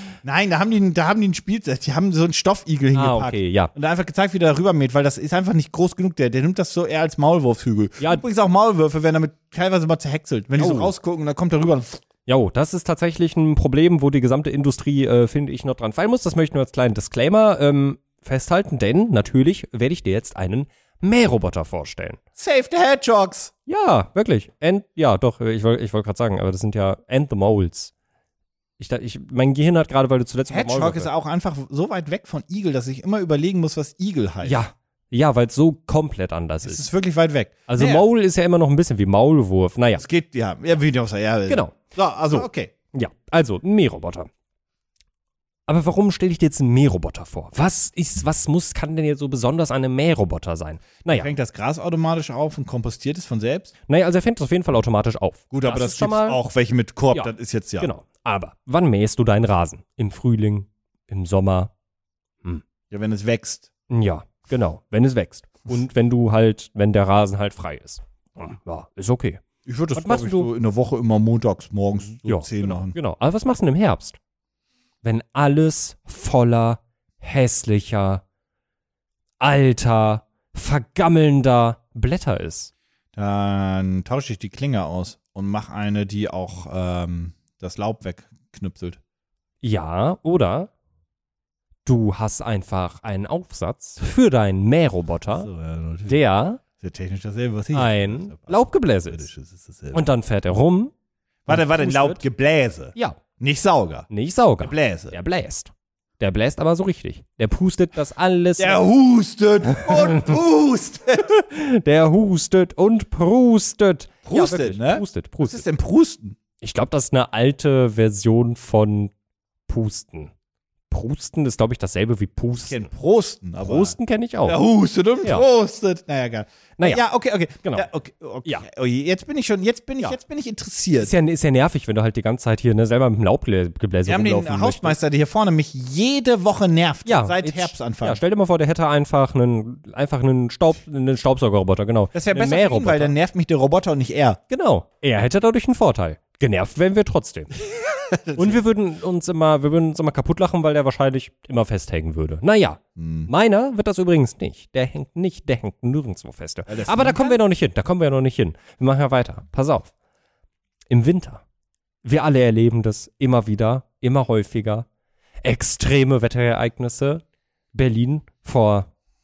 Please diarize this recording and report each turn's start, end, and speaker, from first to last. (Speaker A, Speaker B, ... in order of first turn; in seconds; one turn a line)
Speaker A: 0.2-12.0
Speaker B: 2.9-3.7
Speaker B: 10.6-10.9
Speaker B: 12.3-22.2
Speaker A: 22.4-23.5
Speaker B: 23.7-27.9
Speaker B: 28.8-31.1
Speaker A: 30.5-34.6
Speaker B: 34.4-36.8
Speaker A: 36.6-38.1
Speaker B: 37.7-40.0
Speaker A: 40.0-42.7
Speaker B: 41.5-44.3
Speaker B: 45.7-51.3
Speaker A: 51.1-53.7
Speaker B: 53.9-56.4
Speaker A: 55.5-57.9
Speaker B: 57.1-61.7
Speaker A: 62.9-63.7
Speaker B: 63.9-69.4
Speaker A: 69.7-73.0
Speaker B: 70.0-70.5
Speaker B: 72.2-74.2
Speaker B: 75.0-78.2
Speaker B: 79.4-82.7
Speaker A: 83.2-89.0
Speaker B: 89.6-90.7
Speaker B: 91.9-95.5
Speaker A: 95.3-96.2
Speaker B: 96.1-96.6
Speaker A: 96.8-100.0
Speaker B: 97.7-99.3
Speaker B: 99.9-100.9
Speaker A: 101.5-104.1
Speaker B: 101.5-102.2
Speaker B: 104.1-108.8
Speaker A: 104.6-105.2
Speaker A: 108.6-111.3
Speaker B: 109.8-110.4
Speaker B: 111.2-115.7
Speaker A: 114.3-116.4
Speaker B: 116.6-119.1
Speaker B: 119.7-120.3
Speaker B: 120.9-122.9
Speaker A: 122.6-131.1
Speaker B: 123.6-124.6
Speaker B: 126.8-127.0
Speaker B: 131.0-135.0
Speaker A: 134.1-138.2
Speaker B: 137.1-143.1
Speaker A: 142.1-144.4
Speaker B: 144.5-147.6
Speaker A: 148.1-148.6
Speaker B: 148.3-159.9
Speaker A: 153.0-153.3
Speaker A: 156.7-157.4
Speaker B: 160.9-161.4
Speaker B: 162.0-164.9
Speaker B: 165.4-167.2
Speaker B: 167.7-168.9